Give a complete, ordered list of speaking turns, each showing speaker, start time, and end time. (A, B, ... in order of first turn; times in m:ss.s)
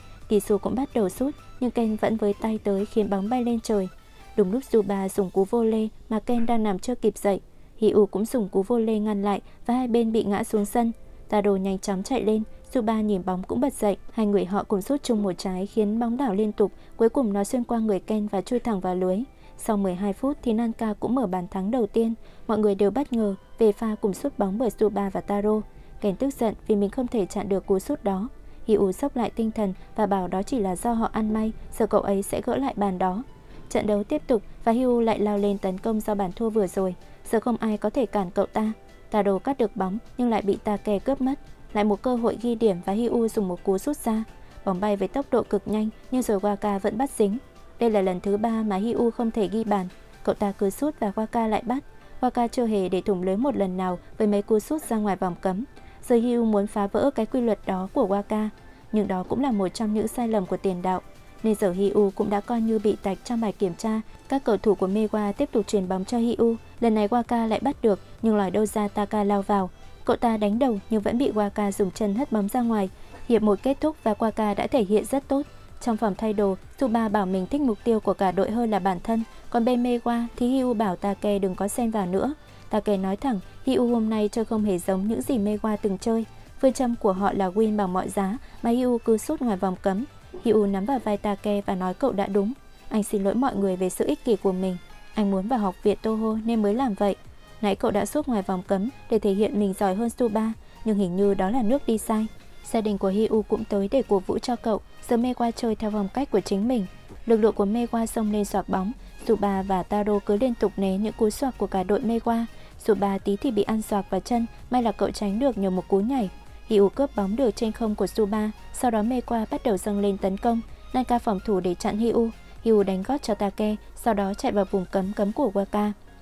0:00.3-2:05.9 A